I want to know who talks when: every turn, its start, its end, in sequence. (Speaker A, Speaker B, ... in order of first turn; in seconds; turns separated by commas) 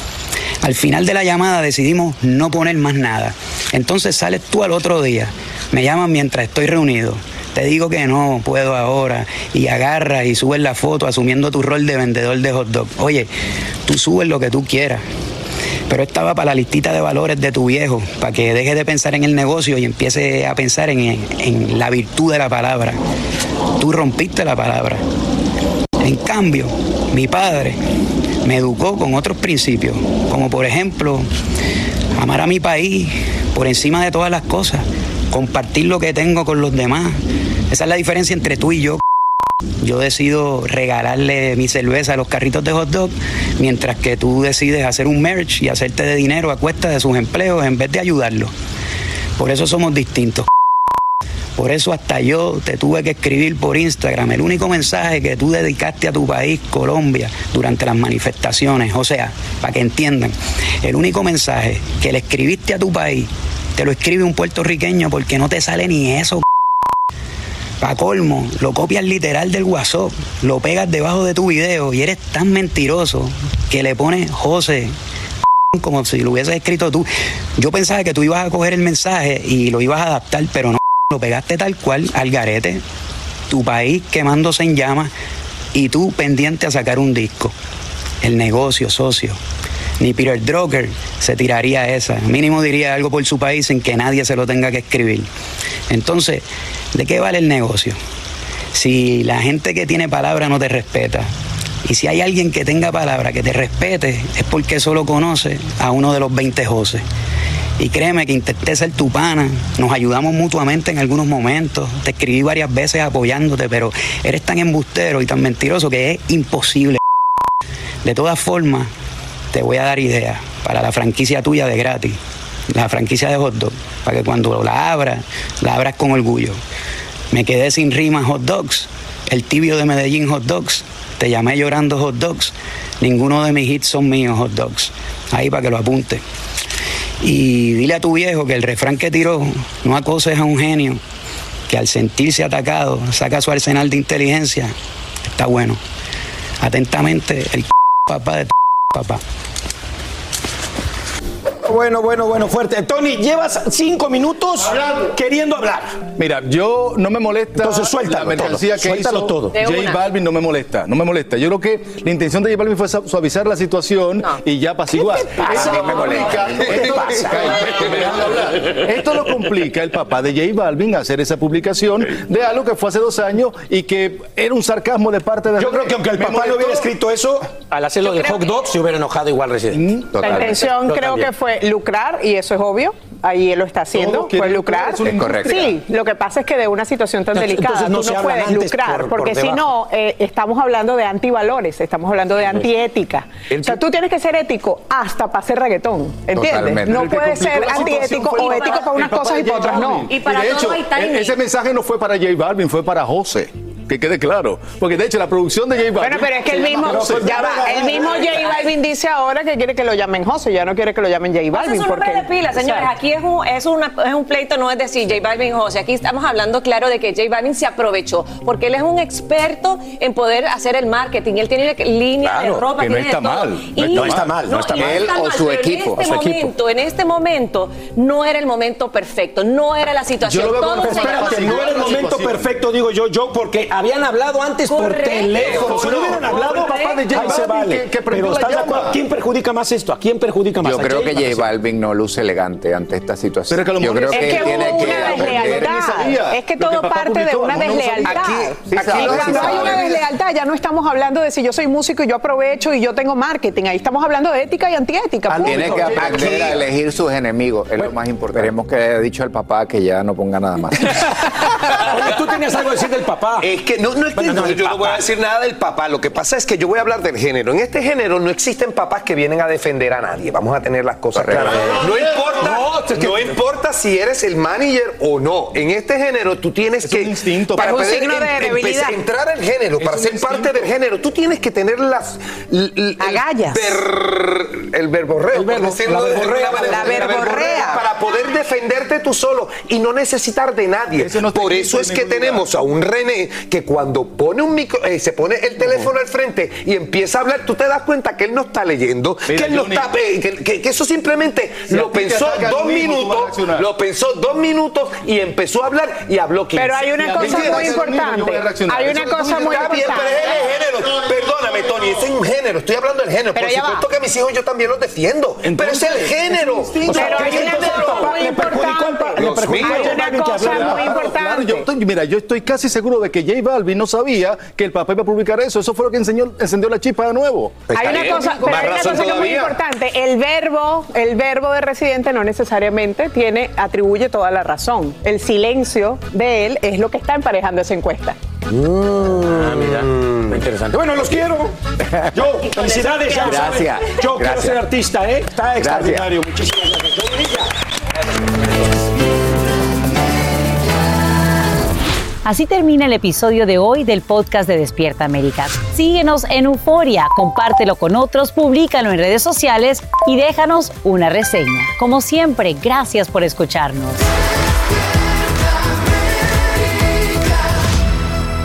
Speaker A: 0.6-13.3, Speaker A: 13.8-15.0, Speaker A: 15.9-23.0, Speaker A: 23.8-25.0, Speaker A: 26.0-27.8, Speaker A: 28.4-31.3, Speaker A: 32.2-37.2, Speaker A: 37.7-39.0, Speaker A: 39.8-48.5, Speaker A: 49.4-50.5, Speaker A: 51.6-66.4, Speaker A: 67.8-74.9, Speaker A: 75.7-82.8, Speaker A: 83.5-85.1, Speaker A: 85.7-87.5, Speaker A: 88.2-89.4, Speaker A: 90.0-95.3, Speaker A: 95.9-98.0, Speaker A: 98.8-101.3, Speaker A: 101.8-107.0, Speaker A: 107.8-117.0, Speaker A: 118.0-118.9, Speaker A: 119.5-122.2, Speaker A: 122.7-126.6, Speaker A: 127.3-136.2, Speaker A: 137.2-141.0, Speaker A: 141.7-144.7, Speaker A: 145.3-145.8, Speaker A: 146.6-149.2, Speaker B: 151.6-156.1, Speaker C: 156.2-176.9, Speaker B: 157.6-159.6, Speaker D: 159.6-160.1, Speaker B: 165.4-168.2, Speaker E: 165.5-167.8, Speaker B: 175.6-181.3, Speaker D: 178.1-178.5, Speaker E: 180.1-180.7, Speaker F: 180.2-200.1, Speaker C: 183.9-185.8, Speaker E: 185.0-185.8, Speaker B: 187.3-189.7, Speaker E: 196.3-197.2, Speaker C: 196.9-208.5, Speaker D: 198.4-198.8, Speaker D: 200.1-201.4, Speaker F: 206.0-212.9, Speaker B: 206.8-207.9, Speaker D: 208.1-208.6, Speaker D: 211.5-232.1, Speaker B: 222.2-222.7, Speaker C: 222.7-224.8, Speaker B: 223.9-225.1, Speaker E: 225.0-225.4, Speaker B: 226.0-226.5, Speaker C: 230.2-232.5, Speaker B: 230.7-241.5, Speaker D: 234.7-236.1, Speaker C: 235.4-239.0, Speaker E: 240.6-245.8, Speaker C: 243.5-250.1, Speaker F: 244.1-256.1, Speaker E: 248.8-249.8, Speaker C: 255.3-256.7, Speaker E: 255.4-260.9, Speaker G: 255.9-256.6, Speaker B: 261.7-263.5, Speaker G: 263.4-307.7, Speaker B: 264.1-265.0, Speaker E: 271.1-271.9, Speaker C: 271.4-273.3, Speaker C: 276.8-278.2, Speaker F: 277.6-279.0, Speaker C: 279.8-280.7, Speaker F: 283.0-283.8, Speaker C: 285.3-287.8, Speaker F: 286.7-287.8, Speaker C: 291.0-292.5, Speaker C: 299.3-299.9, Speaker C: 301.7-303.7, Speaker F: 306.6-310.5, Speaker C: 307.0-312.0, Speaker G: 309.4-318.2, Speaker F: 313.4-313.8, Speaker C: 315.4-318.6, Speaker F: 316.9-321.7, Speaker B: 316.9-320.9, Speaker C: 319.2-328.8, Speaker G: 319.5-319.9, Speaker G: 327.7-329.6, Speaker F: 327.7-338.2, Speaker B: 338.5-341.6, Speaker B: 342.1-347.5, Speaker D: 342.6-343.3, Speaker E: 343.2-344.6, Speaker E: 345.6-346.1, Speaker H: 352.2-364.1